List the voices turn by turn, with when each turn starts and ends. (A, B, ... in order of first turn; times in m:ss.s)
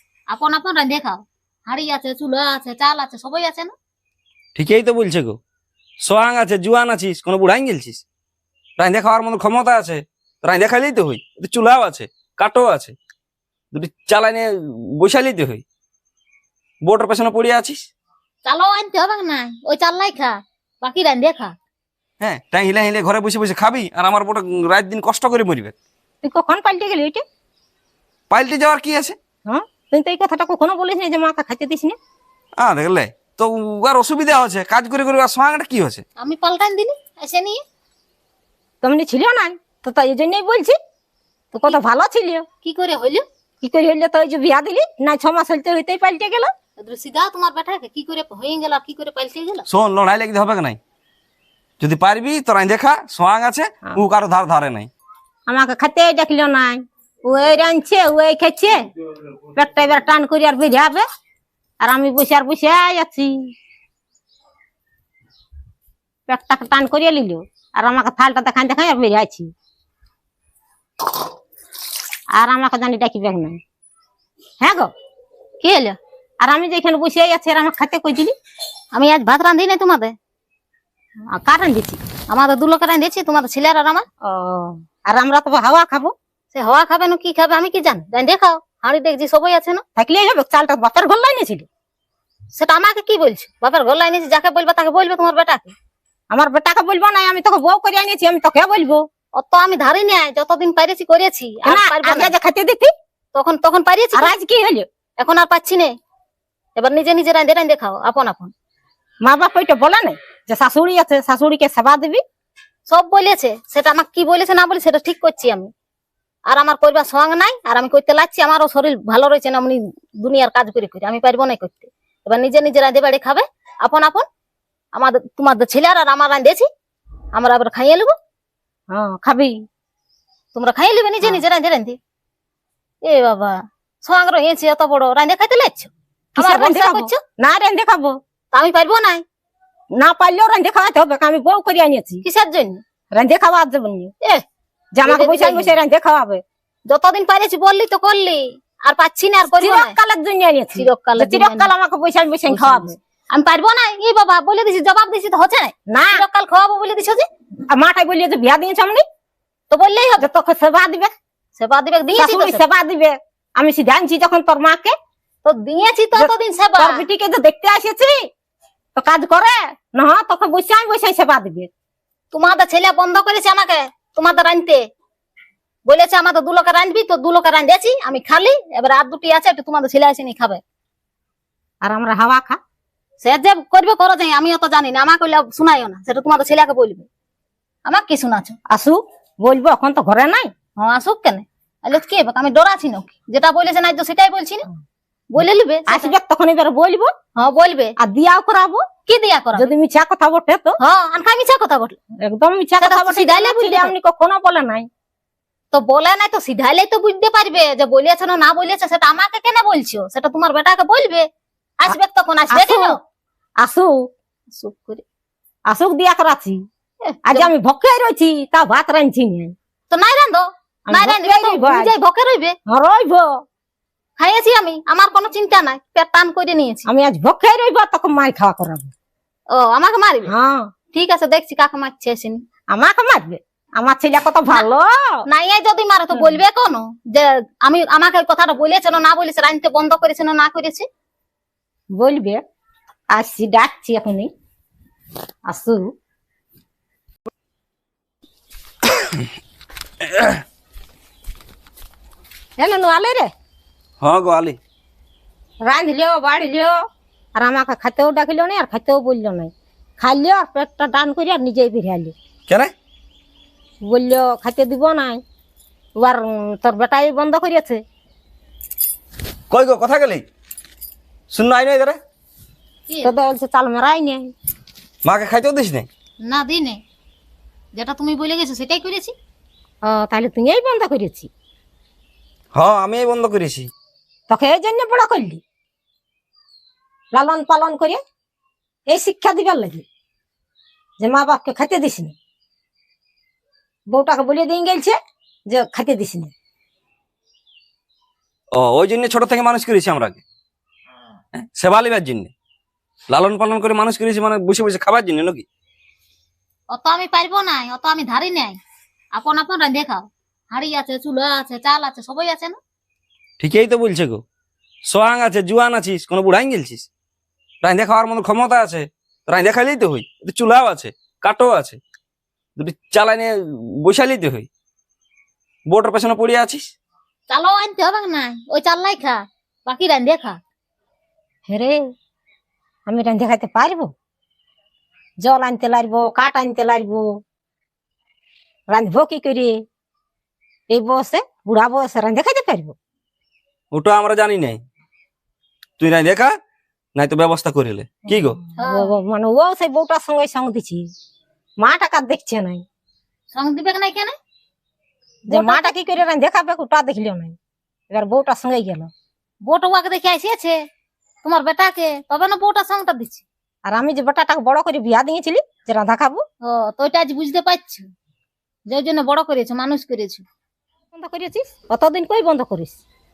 0:00.3-0:03.7 A
0:04.6-0:05.4 B
0:06.1-0:08.0 B
0:08.8-0:13.0 B
0:13.7-0:15.6 B
0:16.8-0:17.8 B
0:18.4-0:21.6 A
0:22.2-0:25.8 B
0:26.2-0:27.2 C
0:28.3-0:29.2 B
0:29.5-0:32.0 C
0:32.6-0:36.0 B
0:36.2-0:37.6 A
0:38.8-0:40.8 C
0:41.6-0:42.4 C
0:42.6-0:43.2 A
0:43.6-0:46.5 C
0:46.8-0:49.7 A
0:49.7-0:50.8 B
0:51.8-0:54.9 B
0:55.5-0:58.8 C
0:59.5-1:01.0 C
1:01.8-1:03.5 C
1:06.3-1:09.5 C
1:12.4-1:13.6 C
1:14.6-1:14.9 C
1:15.6-1:16.0 A
1:16.4-1:18.3 C
1:18.9-1:20.2 A
1:21.3-1:22.0 C
1:22.3-1:24.1 A
1:24.2-1:26.1 C
1:26.5-1:29.8 A
1:30.0-1:31.7 C
1:32.6-1:35.7 A
1:36.3-1:39.0 C
1:39.4-1:42.3 A
1:41.6-1:42.9 C
1:43.3-1:44.3 A
1:44.2-1:44.9 C
1:45.2-1:46.0 A
1:46.8-1:48.5 A
1:49.2-1:52.2 C
1:52.9-1:55.7 A
1:56.5-2:04.3 A
2:04.9-2:06.7 A
2:07.3-2:08.1 A
2:08.9-2:09.6 C
2:10.5-2:12.0 A
2:13.0-2:17.2 A
2:16.4-2:18.2 C
2:18.5-2:19.2 A
2:20.0-2:22.2 C
2:22.2-2:22.8 A
2:23.2-2:24.1 C
2:25.0-2:26.4 C
2:25.0-2:25.7 A
2:26.9-2:30.0 A
2:29.6-2:33.0 C
2:30.8-2:31.7 A
2:32.5-2:37.3 A
2:35.9-2:36.2 C
2:37.7-2:39.0 C
2:39.7-2:40.3 A
2:40.2-2:41.1 C
2:41.6-2:42.6 A
2:42.2-2:44.9 C
2:45.4-2:47.0 A
2:46.2-2:48.2 C
2:49.0-2:51.7 C
2:52.3-2:54.9 A
2:55.9-3:00.6 A
3:01.8-3:02.6 C
3:03.2-3:07.1 A
3:07.9-3:08.6 A
3:08.7-3:10.5 C
3:10.8-3:14.7 A
3:15.3-3:16.1 A
3:15.9-3:17.1 C
3:17.4-3:18.0 A
3:18.0-3:18.8 C
3:19.1-3:19.7 A
3:19.6-3:20.8 C
3:20.8-3:22.0 A
3:22.2-3:24.9 C
3:22.8-3:23.9 A
3:25.7-3:31.3 A
3:31.8-3:33.0 A
3:32.5-3:33.0 C
3:33.6-3:34.0 C
3:34.5-3:35.0 A
3:35.7-3:36.6 C
3:37.1-3:37.5 A
3:37.3-3:39.5 C
3:39.9-3:42.6 A
3:40.9-3:41.9 C
3:42.7-3:43.3 C
3:44.2-3:46.9 A
3:46.9-3:48.9 C
3:49.5-3:50.3 A
3:50.3-3:50.7 C
3:50.9-3:52.4 A
3:52.7-3:55.2 C
3:55.3-4:00.9 A
3:56.1-3:56.4 C
4:02.0-4:02.4 C
4:03.1-4:04.3 C
4:05.5-4:05.9 C
4:08.9-4:09.2 B
4:10.0-4:10.4 B
4:12.6-4:13.3 C
4:14.0-4:14.6 B
4:15.6-4:16.8 C
4:17.4-4:22.1 C
4:22.5-4:22.7 B
4:23.8-4:25.2 C
4:26.0-4:27.8 C
4:29.5-4:30.2 B
4:31.3-4:32.0 B
4:32.9-4:33.1 A
4:33.0-4:34.3 C
4:35.0-4:35.9 B
4:36.2-4:36.8 A
4:37.8-4:39.1 A
4:39.8-4:41.3 C
4:42.5-4:43.7 B
4:44.3-4:45.4 C
4:47.1-4:48.0 C
4:48.9-4:49.8 C
4:51.0-4:52.1 C
4:53.9-4:55.0 C
4:55.5-4:56.3 C
4:58.6-5:00.2 B
5:01.3-5:02.3 B
5:03.1-5:05.5 B
5:06.7-5:08.6 A
5:09.2-5:12.6 A
5:13.4-5:14.2 B
5:14.9-5:16.9 B
5:17.6-5:21.8 B
5:22.6-5:24.5 B
5:25.7-5:26.7 B
5:27.3-5:30.4 A
5:31.5-5:31.9 C
5:32.9-5:33.9 C
5:35.2-5:37.2 C
5:38.7-5:39.6 C
5:40.7-5:42.8 C
5:43.7-5:44.6 B
5:45.8-5:46.4 B
5:47.0-5:48.4 B
5:48.5-5:50.9 C
5:48.6-5:48.9 A
5:51.6-5:52.6 C
5:53.3-5:54.2 A
5:55.3-5:55.7 A
5:55.3-5:57.4 C
5:57.9-5:58.9 C
5:59.5-6:00.6 A
6:01.2-6:03.3 A
6:03.7-6:06.2 C
6:06.4-6:07.9 A
6:08.7-6:10.2 A
6:10.9-6:12.8 C